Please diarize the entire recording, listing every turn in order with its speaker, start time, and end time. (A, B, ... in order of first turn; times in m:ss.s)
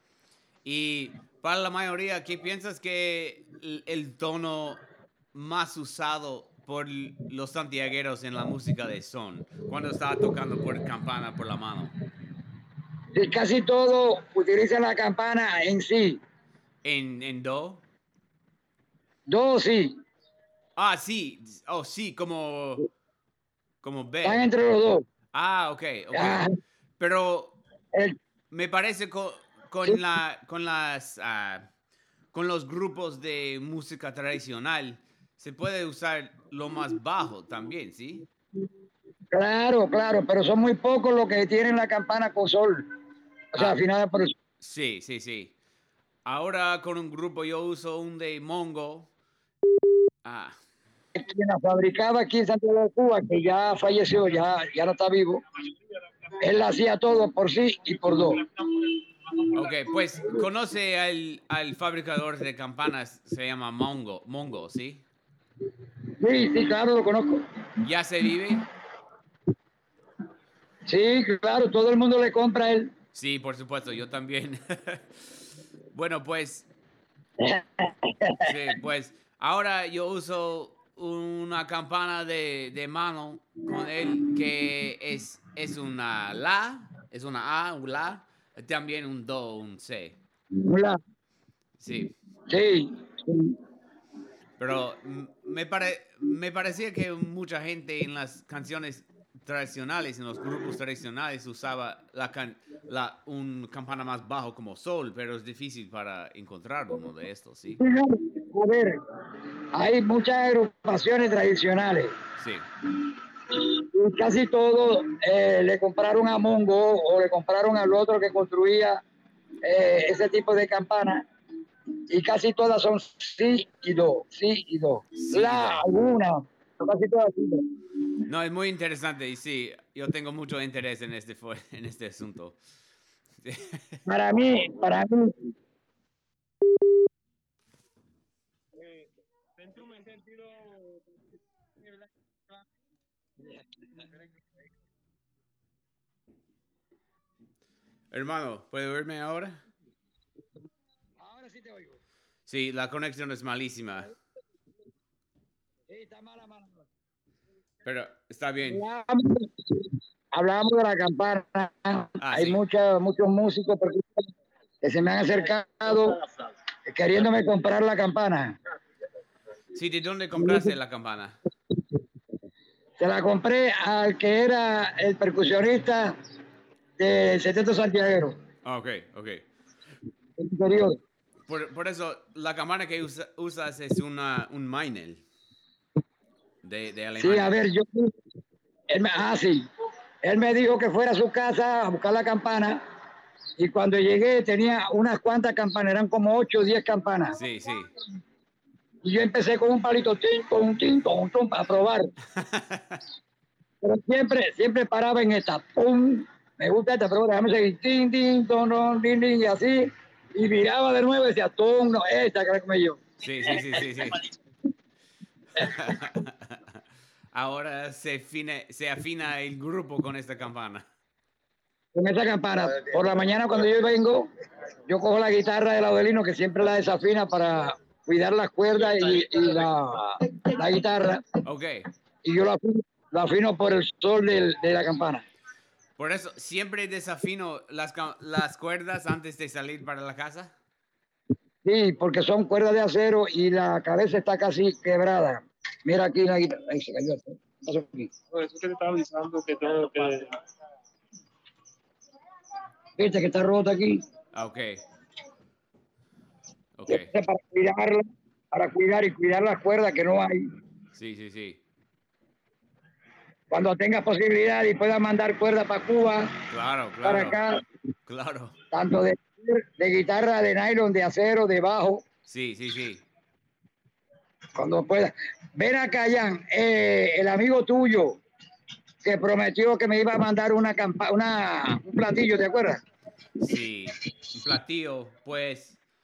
0:00.6-0:04.8 A
0:05.3-0:11.9 A
0:13.1-0:16.2 B
0:16.8-0:17.8 A
0:19.3-0:20.0 B
0:20.8-0:22.9 A
0:23.8-0:24.4 A
0:24.2-0:25.0 B
0:25.3-0:26.4 A
0:26.1-0:26.5 B
0:27.0-0:27.6 A
0:28.5-0:31.7 A
0:32.3-0:38.2 A
0:39.3-0:42.9 B
0:43.5-0:44.3 B
0:44.6-0:45.5 A
0:46.2-0:49.1 A
0:50.2-0:50.6 A
0:51.1-0:55.4 B
0:56.4-0:58.4 B
0:59.5-1:05.0 A
1:06.2-1:07.4 B
1:07.8-1:08.6 A
1:10.8-1:12.9 B
1:13.1-1:15.3 A
1:15.9-1:16.7 A
1:17.4-1:18.5 B
1:18.4-1:30.2 A
1:30.5-1:31.0 B
1:31.8-1:32.1 A
1:32.5-1:33.6 B
1:34.6-1:47.8 A
1:47.8-1:49.0 B
1:49.7-1:52.1 B
1:52.4-1:52.6 A
1:53.6-1:59.0 B
1:59.6-2:01.2 B
2:02.1-2:07.6 B
2:05.2-2:05.8 A
2:08.2-2:12.6 A
2:13.4-2:14.0 A
2:14.0-2:15.5 B
2:18.8-2:21.0 C
2:28.1-2:29.6 A
2:31.2-2:32.0 B
2:32.5-2:34.1 A
2:35.9-2:36.8 B
2:37.8-2:38.8 A
2:38.7-2:44.2 B
2:42.2-2:42.6 A
2:44.8-2:46.2 B
2:46.9-2:48.5 B
2:49.7-2:51.3 A
2:50.4-2:50.7 B
2:53.0-2:56.1 B
2:57.0-2:58.3 B
2:58.6-2:59.4 A
3:00.4-3:01.0 B
3:01.5-3:05.2 A
3:06.6-3:07.5 A
3:07.2-3:08.1 B
3:08.9-3:09.6 B
3:10.2-3:12.8 B
3:13.6-3:17.4 B
3:17.4-3:17.9 A
3:19.0-3:22.1 B
3:22.3-3:23.0 A
3:23.8-3:33.0 B
3:33.2-3:34.2 A
3:35.6-3:36.8 A
3:37.3-3:40.8 A
3:41.9-3:44.3 B
3:44.9-3:51.2 B
3:51.4-3:51.8 A
3:52.2-3:55.2 B
3:56.0-4:00.5 A
4:01.6-4:08.1 B
4:08.3-4:10.3 C
4:13.0-4:14.0 B
4:14.3-4:14.8 A
4:16.8-4:17.1 A
4:16.9-4:20.4 B
4:20.9-4:21.6 A
4:23.5-4:26.3 B
4:26.5-4:27.4 A
4:27.0-4:27.6 B
4:28.1-4:28.5 A
4:28.7-4:32.0 B
4:32.3-4:33.0 A
4:34.6-4:38.2 B
4:39.0-4:42.8 B
4:43.4-4:45.8 A